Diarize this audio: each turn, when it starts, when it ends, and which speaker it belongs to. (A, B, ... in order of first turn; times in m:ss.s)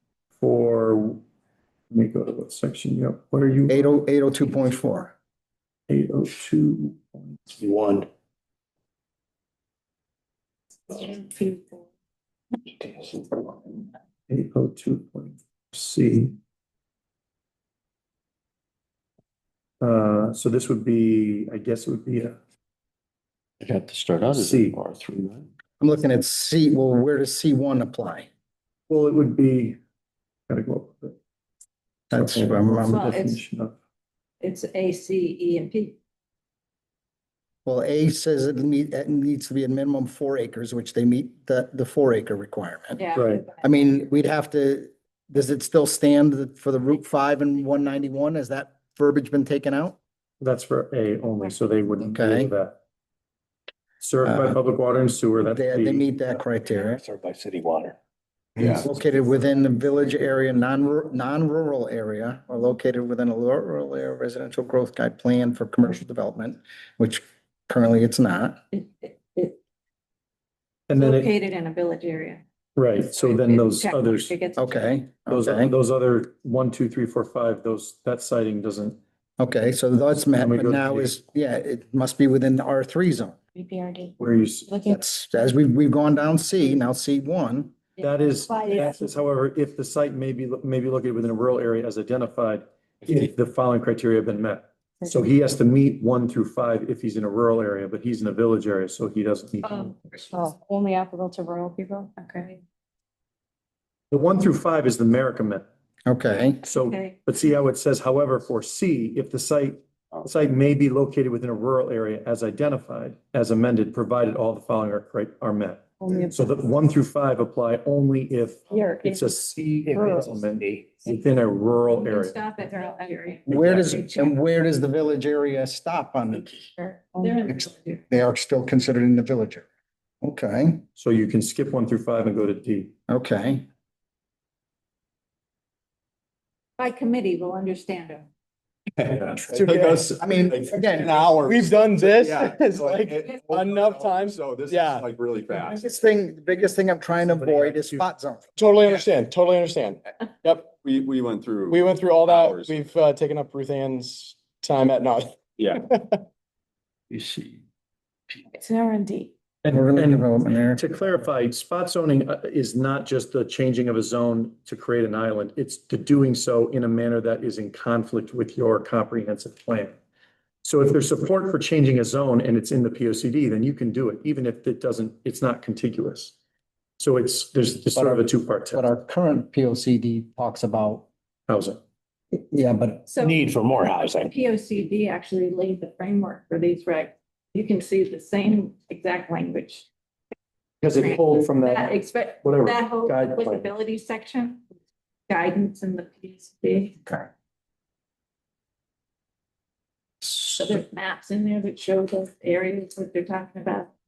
0:00.4-0:01.2 A
0:01.9-0:03.9 A
0:03.7-0:05.1 B
0:05.9-0:07.4 A
0:07.5-0:08.1 C
0:10.9-0:11.8 D
0:14.3-0:16.4 A
0:19.8-0:22.4 A
0:23.6-0:25.4 C
0:24.3-0:24.8 A
0:25.8-0:28.3 B
0:28.9-0:29.8 A
0:30.5-0:31.2 A
0:32.1-0:33.1 B
0:32.1-0:33.7 A
0:32.9-0:33.4 D
0:34.4-0:36.0 D
0:37.6-0:50.0 B
0:43.0-0:43.6 D
0:43.1-0:43.4 A
0:50.4-0:52.8 A
0:52.0-0:52.5 B
0:54.0-0:56.1 A
0:54.2-0:54.6 B
0:55.5-0:57.0 B
0:57.0-0:58.0 C
0:58.6-0:58.8 E
0:58.8-1:08.6 B
1:08.7-1:09.6 D
1:10.9-1:11.4 A
1:10.9-1:12.4 D
1:12.8-1:14.4 A
1:13.1-1:14.9 D
1:14.6-1:15.7 B
1:15.3-1:19.0 A
1:19.4-1:23.4 B
1:20.3-1:21.2 A
1:23.6-1:24.1 F
1:24.2-1:24.7 A
1:24.7-1:25.0 F
1:24.8-1:27.7 B
1:28.0-1:28.9 D
1:28.0-1:40.3 A
1:28.5-1:28.9 F
1:39.6-1:39.9 D
1:40.3-1:42.3 F
1:44.1-1:45.6 A
1:46.0-1:46.6 B
1:46.6-2:02.4 A
1:46.7-1:47.2 D
1:56.0-1:56.5 F
1:58.7-1:59.4 D
1:59.8-2:00.9 C
1:59.9-2:00.3 D
2:01.9-2:04.4 D
2:02.6-2:03.4 F
2:03.5-2:06.6 B
2:03.5-2:03.9 A
2:06.8-2:07.4 F
2:07.1-2:08.0 D
2:07.5-2:09.6 B
2:10.2-2:10.8 B
2:11.0-2:12.9 A
2:13.1-2:13.6 B
2:16.8-2:18.3 D
2:19.0-2:25.8 E
2:19.5-2:20.2 G
2:20.2-2:21.3 B
2:20.9-2:25.0 G
2:25.6-2:28.5 B
2:27.2-2:28.1 A
2:28.6-2:30.7 G
2:30.7-2:32.9 E
2:31.7-2:36.2 G
2:37.1-2:37.6 C
2:38.5-2:39.3 D
2:39.6-2:50.0 A
2:39.7-2:41.0 B
2:50.6-2:56.4 A
2:57.0-2:58.9 A
2:57.9-3:01.1 B
3:01.5-3:01.8 A
3:02.3-3:03.1 B
3:03.1-3:03.4 D
3:03.2-3:04.3 C
3:04.1-3:09.9 D
3:10.8-3:13.6 A
3:11.0-3:14.6 D
3:15.3-3:17.0 D
3:20.4-3:23.9 D